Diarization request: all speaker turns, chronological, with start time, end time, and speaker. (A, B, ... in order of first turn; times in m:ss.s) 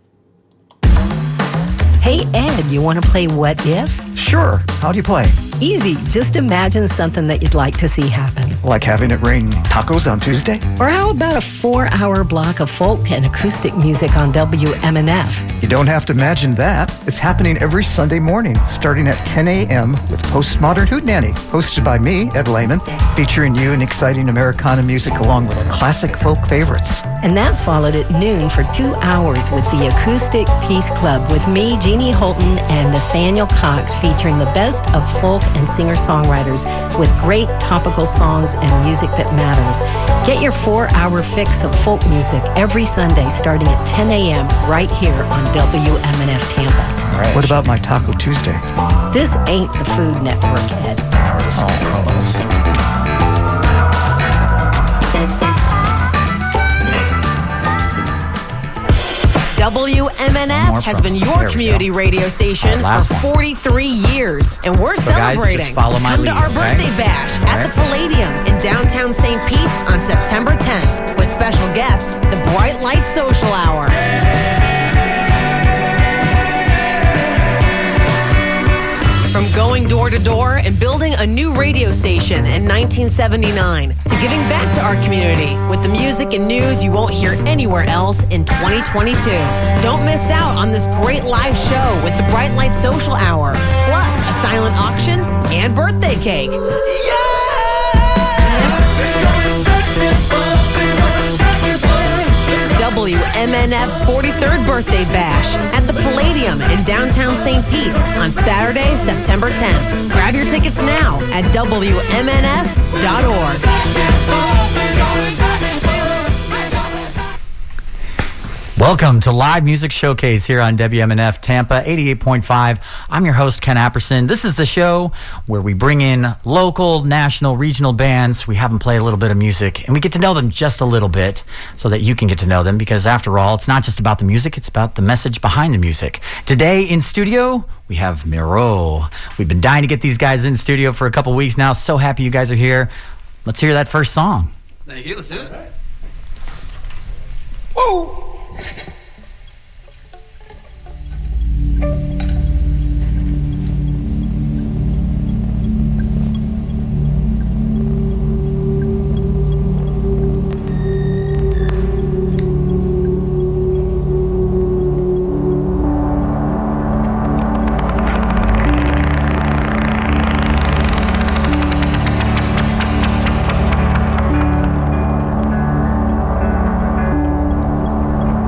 0:02.0-0:04.1 A
0:04.1-0:05.4 B
0:05.6-0:08.6 A
0:08.6-0:10.6 B
0:10.8-0:15.5 A
0:15.6-0:27.0 B
0:27.2-0:47.0 A
0:47.1-0:48.6 B
0:47.2-0:47.5 C
0:49.1-0:51.0 A
0:51.2-0:52.4 B
0:51.5-0:51.8 C
0:59.5-1:14.0 D
1:00.4-1:01.9 C
1:02.6-1:03.3 C
1:05.0-1:07.7 C
1:19.3-1:36.6 D
1:36.9-1:38.3 E
1:42.5-1:53.6 D
1:58.8-2:22.9 C
2:23.4-2:24.5 C
2:24.9-2:25.6 E
2:27.8-2:28.1 E